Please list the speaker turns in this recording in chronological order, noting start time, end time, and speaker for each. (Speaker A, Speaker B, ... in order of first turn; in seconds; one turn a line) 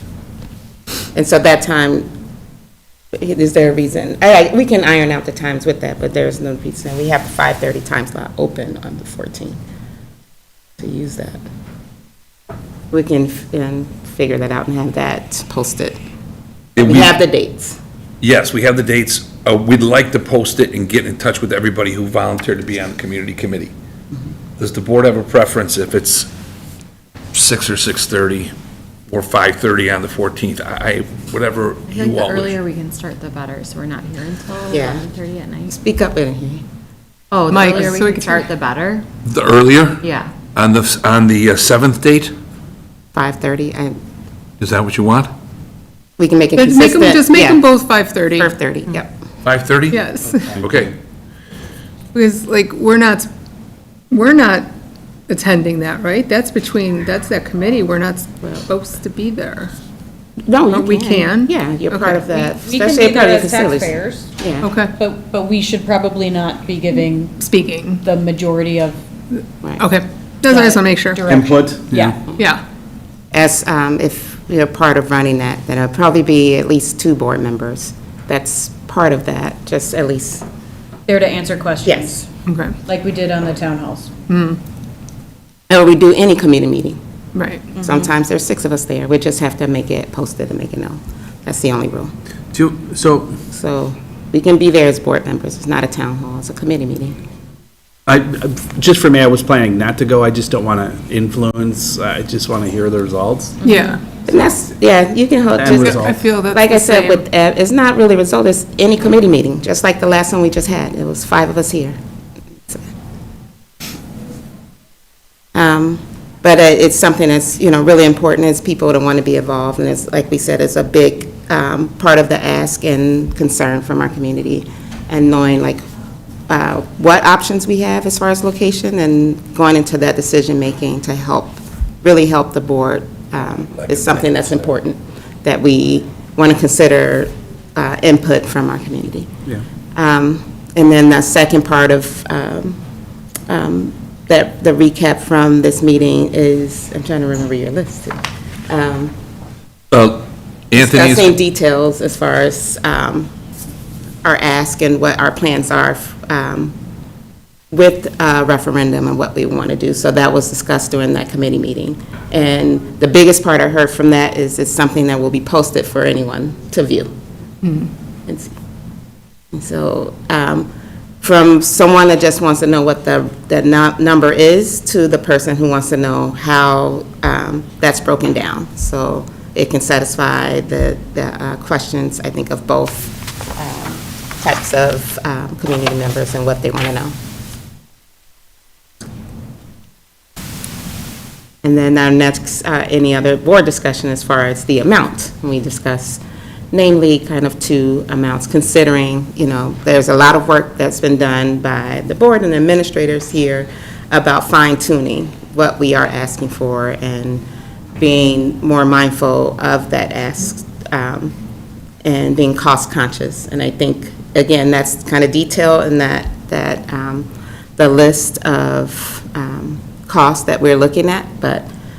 Speaker A: 1.1-2.1
Speaker A: 3.1-9.6
Speaker A: 10.8-11.4
Speaker A: 12.9-16.0
Speaker B: 16.8-17.1
Speaker A: 16.8-17.8
Speaker B: 18.2-23.7
Speaker B: 24.6-26.3
Speaker B: 27.3-28.5
Speaker B: 29.1-32.6
Speaker C: 31.9-35.7
Speaker A: 34.7-35.1
Speaker A: 35.7-36.6
Speaker C: 37.3-39.0
Speaker D: 37.5-38.4
Speaker B: 39.2-42.3
Speaker C: 40.0-40.3
Speaker A: 43.1-44.0
Speaker B: 44.6-45.3
Speaker A: 46.2-47.6
Speaker D: 46.6-48.5
Speaker A: 48.3-49.1
Speaker B: 49.5-50.0
Speaker D: 49.9-50.3
Speaker E: 50.4-50.9
Speaker B: 50.6-50.9
Speaker D: 52.1-53.3
Speaker D: 54.1-54.6
Speaker D: 55.3-59.7
Speaker A: 60.5-64.7
Speaker D: 60.8-62.2
Speaker F: 62.4-64.3
Speaker D: 64.6-64.9
Speaker F: 65.0-67.5
Speaker D: 67.4-68.0
Speaker F: 68.0-69.0
Speaker A: 69.6-69.9
Speaker D: 69.8-71.2
Speaker F: 70.5-72.2
Speaker E: 71.3-72.2
Speaker D: 72.4-72.6
Speaker A: 73.3-80.5
Speaker F: 81.1-82.3
Speaker A: 81.8-82.2
Speaker D: 82.5-82.8
Speaker F: 82.9-84.1
Speaker D: 84.3-84.6
Speaker A: 85.7-87.0
Speaker A: 87.8-92.1
Speaker E: 92.5-93.4
Speaker A: 93.5-97.2
Speaker E: 98.1-103.6
Speaker D: 103.6-104.0
Speaker A: 104.3-112.0
Speaker E: 105.5-106.1
Speaker D: 105.8-107.2
Speaker A: 115.5-125.8
Speaker A: 126.5-139.3
Speaker A: 140.0-142.8
Speaker A: 143.5-149.1
Speaker B: 149.9-151.3
Speaker A: 150.7-153.3
Speaker A: 154.2-156.7
Speaker A: 157.7-167.1
Speaker A: 168.3-168.5
Speaker A: 169.5-170.7
Speaker A: 171.2-187.2
Speaker A: 191.6-207.4
Speaker A: 208.0-211.3
Speaker A: 212.0-221.7